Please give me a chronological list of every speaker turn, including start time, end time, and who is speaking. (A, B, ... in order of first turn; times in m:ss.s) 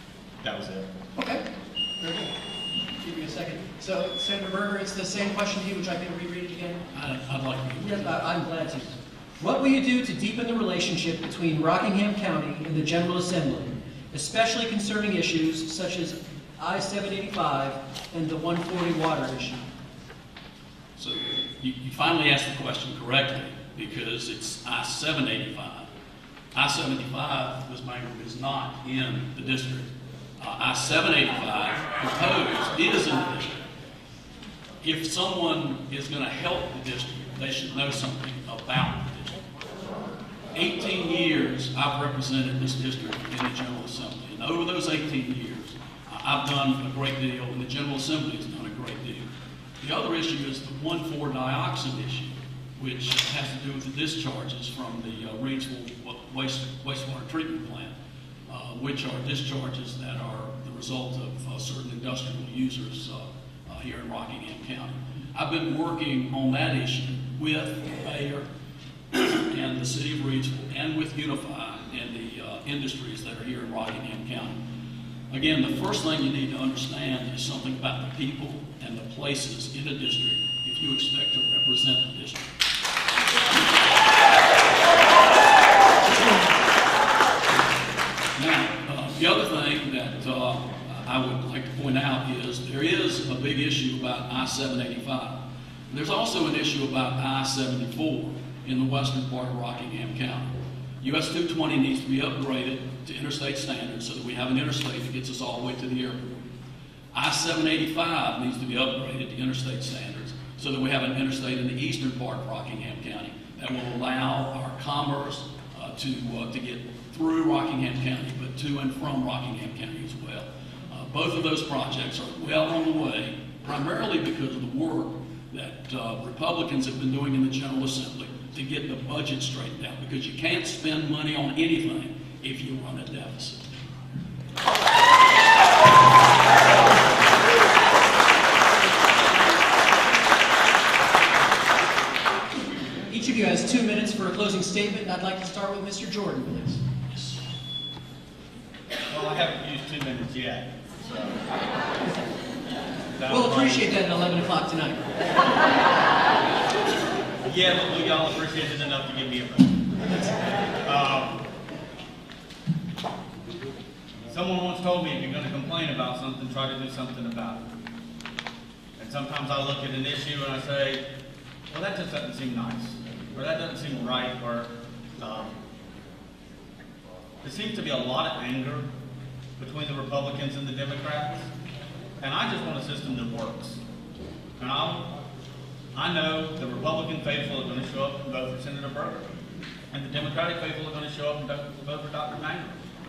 0:00.4-0:00.9 A
0:01.2-0:01.4 B
0:02.0-0:02.3 B
0:03.0-0:06.8 B
0:06.9-0:08.1 C
0:07.8-0:19.7 B
0:21.0-0:25.9 C
0:26.5-0:33.6 C
0:34.8-0:39.4 C
0:40.5-0:49.3 C
0:49.8-0:57.9 C
0:58.5-1:08.5 C
1:09.1-1:14.6 C
1:15.3-1:22.5 C
1:27.5-1:46.2 C
1:47.1-2:14.0 C
2:23.1-2:26.8 B
2:29.1-2:31.5 A
2:33.2-2:33.9 A
2:33.3-2:35.1 B
2:37.4-2:40.3 A
2:40.8-2:41.4 A
2:44.3-2:47.6 A
2:49.0-2:51.0 A
2:51.7-2:55.6 A
2:57.4-2:58.9 A
2:59.6-3:01.5 A
3:02.2-3:03.8 A
3:04.6-3:05.1 A
3:05.9-3:09.3 A
3:09.9-3:12.8 A